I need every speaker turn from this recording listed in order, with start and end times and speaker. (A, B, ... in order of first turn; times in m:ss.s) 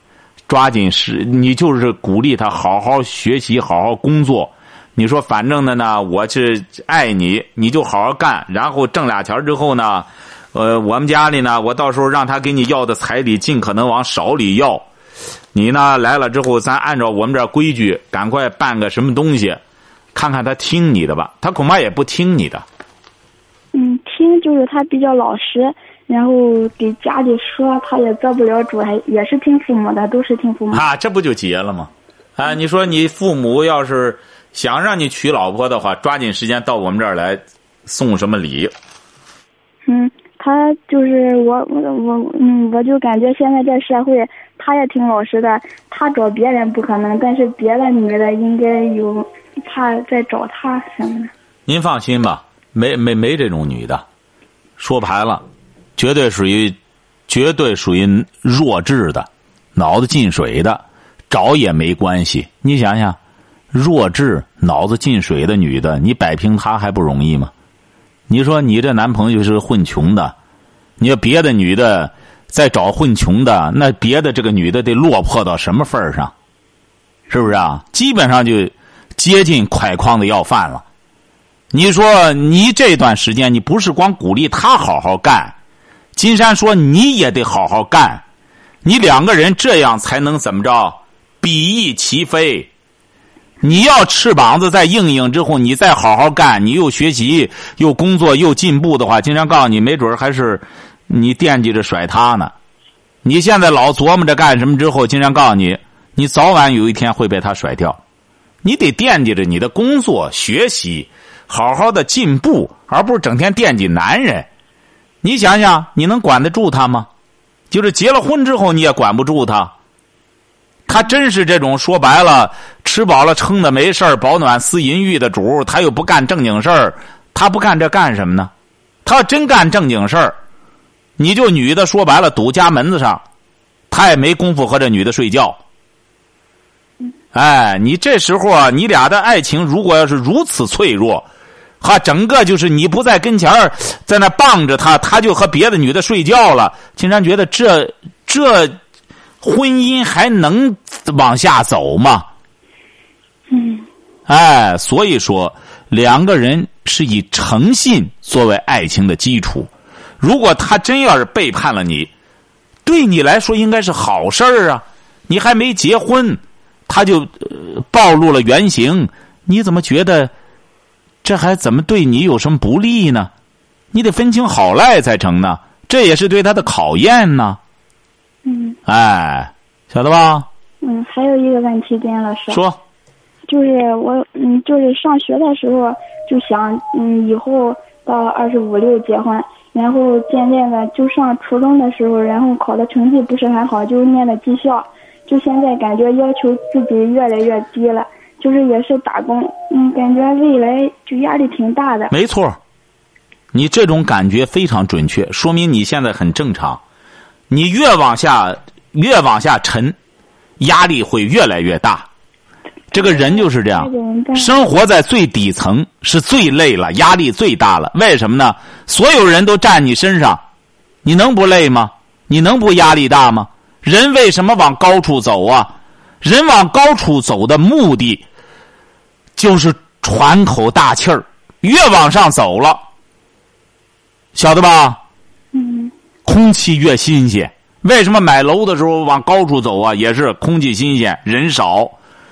0:00.5-0:14.8 A
0:15.5-0:19.6 A
0:20.1-0:22.6 A
0:23.7-0:30.8 B
0:30.7-0:38.7 A
0:39.9-0:51.3 B
0:51.7-0:54.0 A
0:54.8-0:55.4 A
0:56.0-0:56.8 A
0:57.3-1:03.2 A
1:03.7-1:07.5 A
1:08.3-1:10.4 A
1:11.0-1:16.3 A
1:17.3-1:20.8 A
1:21.7-1:25.6 A
1:26.2-1:28.2 A
1:28.8-1:32.7 A
1:33.6-1:42.5 A
1:43.2-1:48.0 A
1:48.6-1:54.5 A
1:55.2-1:57.1 A
1:57.7-1:59.7 A
2:00.9-2:08.5 A
2:09.0-2:10.4 A
2:11.2-2:13.2 A
2:13.9-2:15.6 A
2:17.3-2:21.3 A
2:21.8-2:28.8 A
2:29.4-2:32.3 A
2:33.5-2:33.9 B
2:34.3-2:42.1 A
2:42.8-2:50.3 A
2:51.2-2:53.3 A
2:53.9-2:57.6 A
2:58.5-2:58.8 B
2:58.9-3:00.5 A
3:00.8-3:02.6 B
3:02.5-3:02.8 A
3:03.5-3:22.1 B
3:22.1-3:22.6 A
3:23.5-3:26.8 A
3:27.5-3:30.0 A
3:30.6-3:32.1 A
3:32.9-3:34.6 B
3:32.9-3:40.4 A
3:41.0-3:48.3 A
3:49.4-3:52.8 A
3:54.4-3:55.0 A
3:55.5-3:55.9 B
3:56.3-4:02.0 A